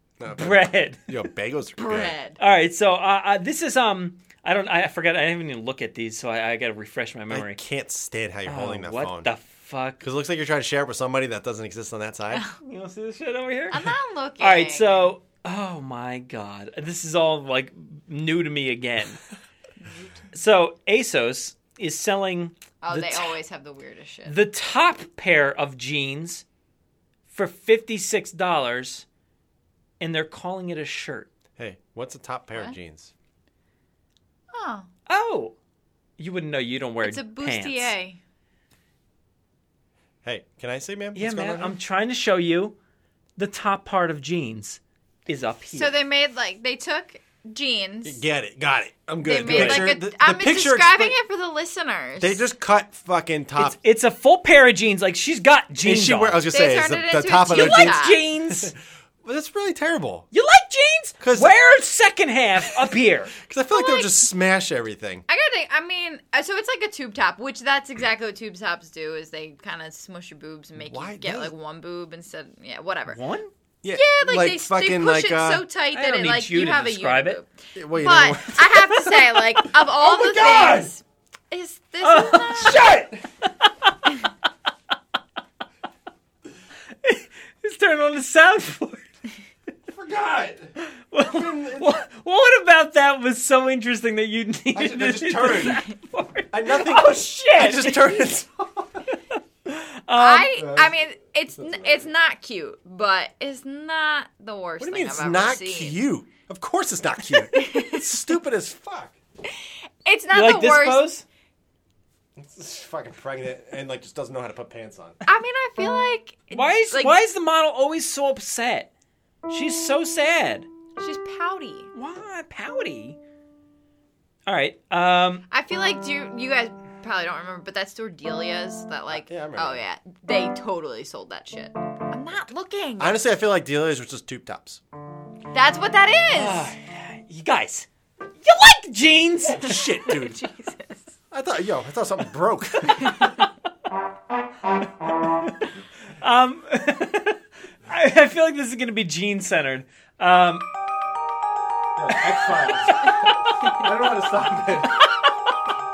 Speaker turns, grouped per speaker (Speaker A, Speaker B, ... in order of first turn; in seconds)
Speaker A: 0.2-2.2, 7.3-9.3, 10.0-12.4, 31.6-33.1, 40.2-41.8, 48.0-51.2, 52.2-53.8, 55.8-60.3, 61.2-61.5, 63.4-65.2, 70.8-71.5, 73.8-75.7, 77.8-79.0, 89.9-92.0, 94.7-95.8, 96.5-99.1, 100.6-100.9, 101.6-102.1, 104.8-109.2, 112.4-115.2, 129.1-129.8, 133.0-134.8, 139.6-140.4, 141.3-143.3, 152.0-155.0
Speaker B: 0.3-1.1, 2.4-7.6, 8.5-10.0, 12.6-19.2, 20.3-23.4, 24.3-26.4, 27.3-29.1, 30.0-31.3, 35.1-35.5, 36.2-37.9, 41.1-42.8, 43.4-45.9, 49.4-49.9, 53.6-56.5, 57.5-58.7, 60.3-63.4, 73.1-73.5, 75.9-77.4, 80.0-80.9, 82.0-83.9, 87.0-89.0, 90.9-98.3, 99.7-100.6, 110.3-111.2, 116.5-118.9, 119.5-120.7, 121.9-123.2, 124.5-125.4, 136.3-137.9, 138.4-140.0, 146.2-150.7, 152.1-153.1
Speaker C: 1.8-2.4, 13.7-15.1, 22.8-24.4, 34.5-34.9, 37.0-38.2, 45.7-48.2, 49.2-52.5, 56.5-58.2, 63.7-64.2, 65.3-73.2, 73.9-82.9, 100.1-106.0, 107.3-108.2, 109.5-111.1, 115.2-117.2, 121.0-121.9, 125.5-133.2, 135.5-136.7, 139.7-141.2, 143.1-143.3